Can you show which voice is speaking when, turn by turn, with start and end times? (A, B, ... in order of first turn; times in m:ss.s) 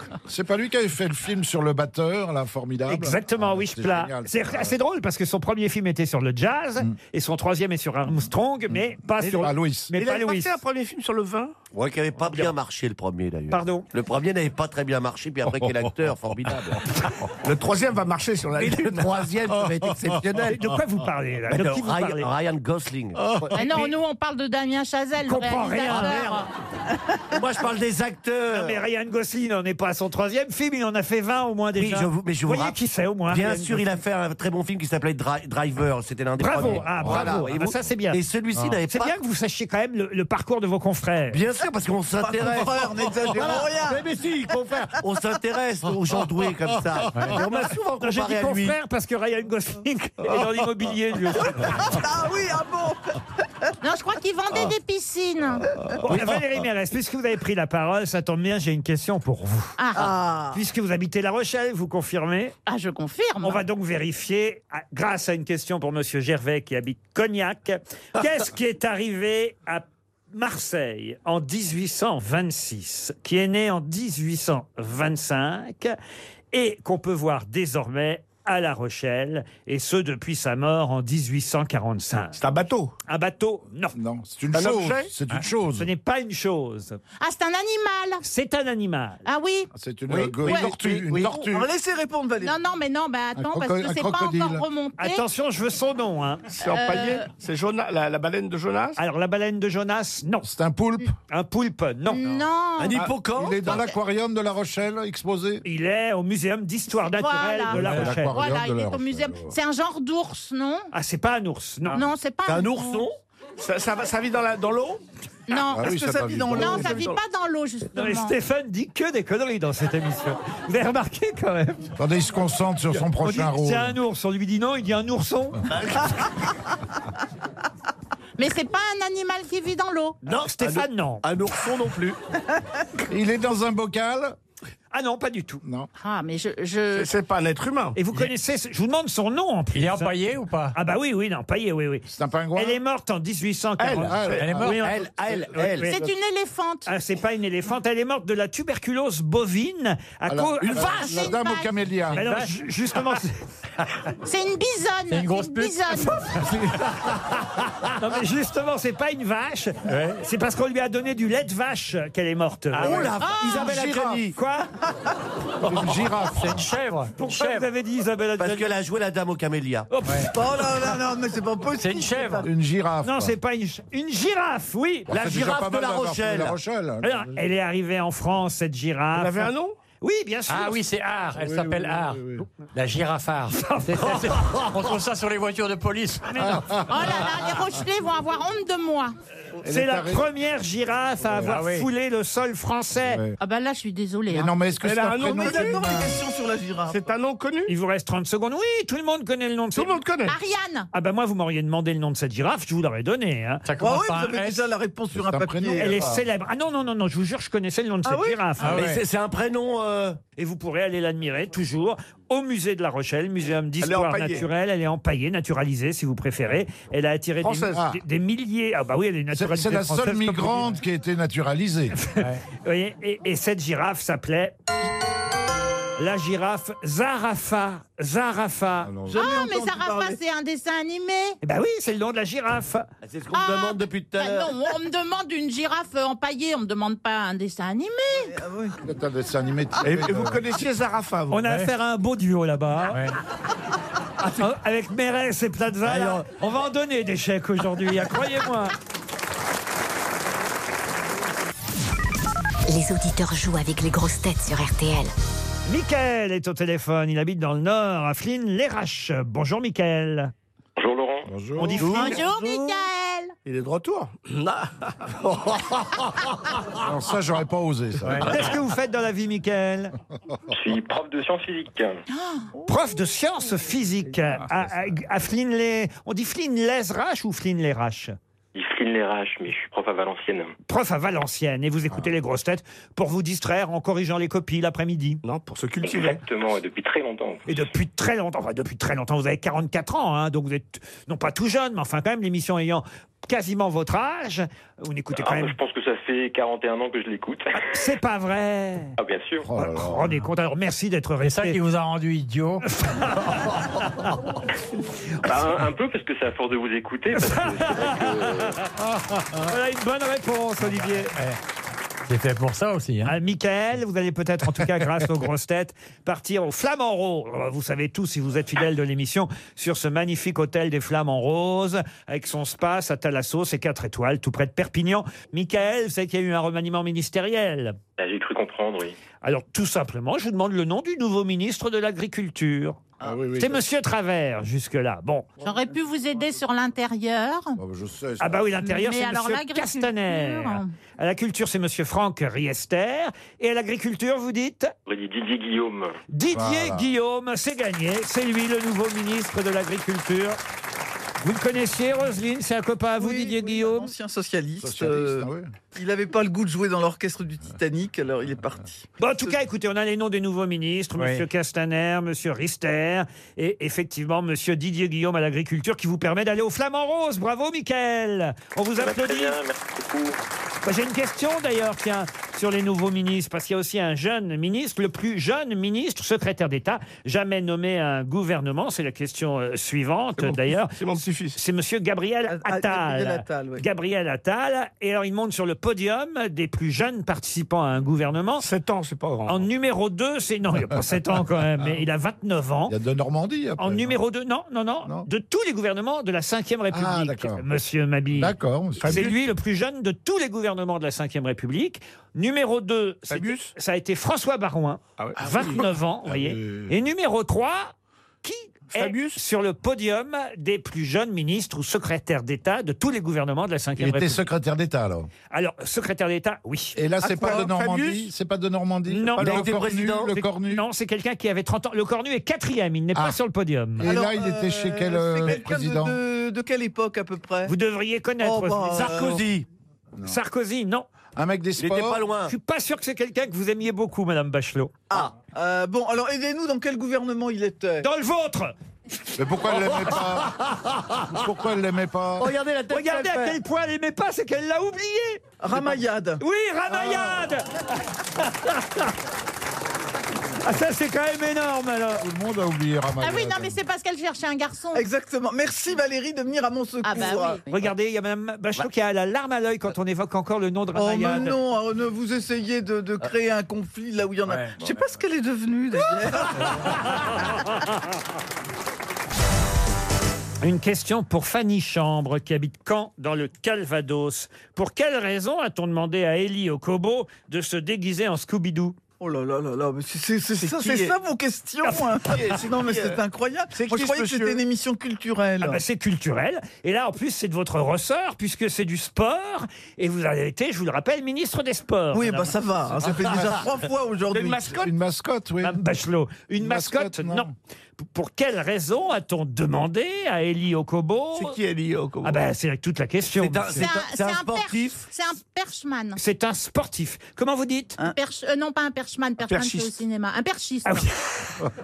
0:00.3-0:04.8 A
0:02.9-0:10.5 B
0:09.2-0:11.5 C
0:09.3-0:09.9 A
0:11.7-0:16.8 D
0:13.5-0:13.9 B
0:15.5-0:16.8 A
0:17.4-0:19.2 C
0:18.6-0:20.6 D
0:19.6-0:20.4 A
0:20.5-0:22.3 B
0:21.5-0:23.5 D
0:23.2-0:23.5 A
0:23.5-0:26.5 E
0:25.2-0:26.4 B
0:25.9-0:26.4 D
0:27.3-0:28.8 D
0:28.5-0:33.9 B
0:31.8-0:32.8 D
0:33.3-0:39.1 D
0:36.4-0:38.2 B
0:36.5-0:37.5 A
0:38.9-0:41.4 B
0:41.3-0:48.8 D
0:42.2-0:44.0 F
0:47.1-0:47.4 G
0:47.3-0:51.9 B
0:51.5-0:53.2 F
0:53.8-0:55.6 E
0:56.0-0:59.8 B
0:59.8-1:00.2 E
0:59.9-1:00.6 F
1:00.5-1:02.6 B
1:02.7-1:03.6 E
1:03.4-1:16.0 B
1:16.5-1:22.4 B
1:22.3-1:22.9 C
1:23.0-1:23.9 B
1:23.9-1:25.9 A
1:24.5-1:25.1 C
1:25.8-1:27.0 B
1:27.2-1:28.2 E
1:28.2-1:29.2 B
1:29.2-1:29.7 E
1:29.7-1:31.7 A
1:30.1-1:31.4 C
1:30.4-1:30.7 E
1:31.3-1:32.6 F
1:32.4-1:35.2 E
1:33.3-1:34.6 A
1:35.0-1:36.5 B
1:36.5-1:39.0 C
1:36.6-1:37.3 E
1:39.0-1:40.5 B
1:40.4-1:41.1 A
1:41.3-1:42.2 B
1:42.1-1:43.0 E
1:42.8-1:43.8 D
1:43.3-1:45.6 A
1:45.6-1:48.3 B
1:47.0-1:50.9 E
1:47.7-1:49.5 A
1:50.9-1:52.0 B
1:51.9-1:53.1 E
1:52.4-1:53.2 D
1:53.6-1:55.0 C
1:55.5-1:55.9 E
1:55.6-1:57.1 A
1:55.8-1:57.1 F
1:56.5-1:58.3 E
1:57.9-2:01.9 B
2:02.0-2:04.0 A
2:03.2-2:05.7 B
2:05.7-2:06.3 D
2:08.4-2:10.2 E
2:10.2-2:11.2 B
2:10.2-2:12.2 D
2:13.1-2:14.4 A
2:14.9-2:15.6 B
2:15.6-2:15.9 A
2:16.0-2:17.1 E
2:16.9-2:18.0 C
2:17.9-2:20.2 B
2:19.7-2:20.8 G
2:20.7-2:25.0 B
2:22.1-2:22.8 A
2:23.8-2:25.9 C
2:24.0-2:24.8 A
2:24.4-2:25.0 G
2:25.5-2:26.0 B
2:25.8-2:26.9 E
2:26.8-2:31.3 B
2:30.3-2:32.2 A
2:30.7-2:31.9 E
2:32.1-2:32.5 G
2:32.2-2:33.4 B
2:34.2-2:36.2 E
2:35.1-2:36.8 G
2:37.9-2:43.0 B
2:39.9-2:40.2 G
2:42.7-2:43.2 G
2:42.8-2:44.4 D
2:43.1-2:43.9 E
2:43.5-2:44.2 A
2:44.3-2:44.7 B
2:45.6-2:46.6 A
2:46.3-2:47.7 G
2:47.2-2:48.7 B
2:48.4-2:49.9 D
2:49.9-2:50.7 B
2:50.0-2:50.3 G
2:50.3-2:52.5 F
2:51.8-2:52.4 G
2:52.4-2:53.3 A
2:53.0-2:55.1 B
2:55.1-2:57.4 A
2:55.1-2:56.6 D
2:57.0-2:59.5 B
2:59.1-2:59.8 C
3:00.0-3:00.8 B
3:00.5-3:06.9 G
3:01.3-3:02.4 A
3:03.6-3:04.2 B
3:04.2-3:04.7 D
3:06.3-3:06.7 B
3:06.4-3:07.0 A
3:06.9-3:09.1 E
3:09.6-3:10.3 A
3:09.6-3:13.2 B
3:11.4-3:11.9 G
3:13.0-3:13.4 A
3:13.4-3:14.6 E
3:14.3-3:16.2 A
3:14.8-3:16.1 C
3:15.2-3:17.0 F
3:16.9-3:17.7 C
3:17.7-3:20.0 B
3:19.7-3:20.4 C
3:20.2-3:20.9 E
3:20.9-3:23.6 B
3:23.6-3:24.7 G
3:23.8-3:26.1 F
3:25.1-3:26.2 A
3:25.7-3:28.9 B
3:28.0-3:28.4 F
3:28.6-3:29.0 G
3:28.6-3:30.2 D
3:30.4-3:40.7 B
3:33.8-3:34.5 C
3:37.4-3:37.8 C
3:37.7-3:38.0 A
3:39.3-3:42.0 A
3:42.2-3:42.4 G
3:42.6-3:44.5 B
3:46.0-3:48.9 B
3:48.8-3:49.3 A
3:49.1-3:50.2 F
3:49.1-3:51.4 E
3:51.4-3:52.9 B
3:53.0-3:54.6 D
3:53.3-3:58.3 E
3:58.2-3:58.8 F
3:58.8-4:00.4 A
3:59.8-4:01.4 C
4:01.3-4:03.1 B
4:01.4-4:01.7 G
4:04.4-4:08.7 B
4:05.9-4:06.2 D
4:12.7-4:15.1 H
4:15.7-4:20.3 B
4:20.8-4:21.3 I
4:21.2-4:21.9 A
4:21.6-4:22.2 B
4:21.8-4:23.3 E
4:21.8-4:22.7 C
4:23.4-4:25.6 C
4:26.8-4:28.5 A
4:28.2-4:29.9 B
4:30.5-4:32.0 I
4:32.1-4:32.5 E
4:32.7-4:38.1 B
4:38.5-4:40.5 I
4:40.6-4:45.2 B
4:45.2-4:46.2 C
4:45.8-4:47.7 I
4:47.5-4:55.5 B
4:55.2-4:57.6 I
4:57.5-4:59.0 B
4:59.0-4:59.5 I
4:59.4-5:00.2 A
4:59.6-5:01.6 B
5:01.2-5:02.6 G
5:02.6-5:04.2 B
5:05.2-5:08.6 I
5:07.1-5:08.6 B
5:09.4-5:11.1 B
5:10.6-5:11.4 G
5:12.1-5:13.1 G
5:13.0-5:27.8 B
5:28.0-5:29.0 I
5:29.2-5:32.8 B
5:33.0-5:33.6 A
5:33.3-5:35.3 B
5:35.4-5:37.6 E
5:37.5-5:38.4 A
5:38.2-5:44.7 B
5:38.6-5:40.7 E
5:44.8-5:46.0 I
5:46.1-5:50.4 B
5:46.3-5:46.9 A
5:51.2-5:53.9 B
5:53.0-5:59.3 F
5:54.6-5:55.5 A
5:59.0-6:09.4 B
6:01.0-6:01.2 G
6:08.8-6:10.2 I
6:10.6-6:28.4 B
6:20.2-6:21.4 C
6:22.3-6:23.6 F
6:28.4-6:29.4 C
6:29.3-6:32.7 B
6:32.7-6:34.0 A
6:33.6-6:54.3 B
6:36.7-6:37.4 A
6:38.1-6:39.1 A
6:38.8-6:39.2 C
6:43.1-6:43.5 C
6:45.0-6:45.6 C
6:45.2-6:46.7 A
6:48.7-6:49.2 C
6:53.8-6:55.1 A
6:55.3-6:56.8 B
6:56.7-7:00.6 A
6:57.0-6:57.5 F
6:57.2-6:58.1 C
6:58.9-6:59.4 B
6:59.2-7:00.1 D
7:00.1-7:03.9 B
7:03.8-7:06.0 A
7:03.8-7:07.5 F
7:07.4-7:09.2 B
7:08.2-7:09.2 F
7:08.7-7:09.5 D
7:10.0-7:10.8 B
7:11.2-7:12.0 A
7:11.6-7:12.3 D
7:12.3-7:14.7 B
7:14.9-7:17.8 F
7:17.8-7:18.5 B
7:19.2-7:20.4 A
7:19.5-7:21.1 D
7:21.1-7:22.3 A
7:22.2-7:23.4 D
7:22.7-7:27.5 B
7:25.4-7:26.2 F
7:26.7-7:27.2 A
7:28.2-7:28.9 B
7:30.4-7:32.0 B
7:32.0-7:33.6 A
7:33.0-7:34.9 E
7:34.7-7:37.4 F
7:36.8-7:37.4 E
7:37.5-7:41.4 B
7:40.7-7:46.7 F
7:44.2-7:44.5 G
7:50.4-7:58.8 B
7:59.0-8:05.6 F
8:00.4-8:00.9 C
8:01.6-8:01.9 B
8:02.0-8:03.0 C
8:03.5-8:04.4 C
8:05.4-8:12.8 B
8:11.9-8:14.6 F
8:14.1-8:14.7 C
8:14.5-8:15.6 A
8:15.4-8:21.4 B
8:16.4-8:17.3 A
8:21.1-8:22.2 C
8:22.0-8:23.5 B
8:23.2-8:24.8 D
8:23.6-8:26.0 E
8:26.0-8:27.8 B
8:27.8-8:30.9 E
8:29.2-8:29.8 C
8:30.6-8:31.4 B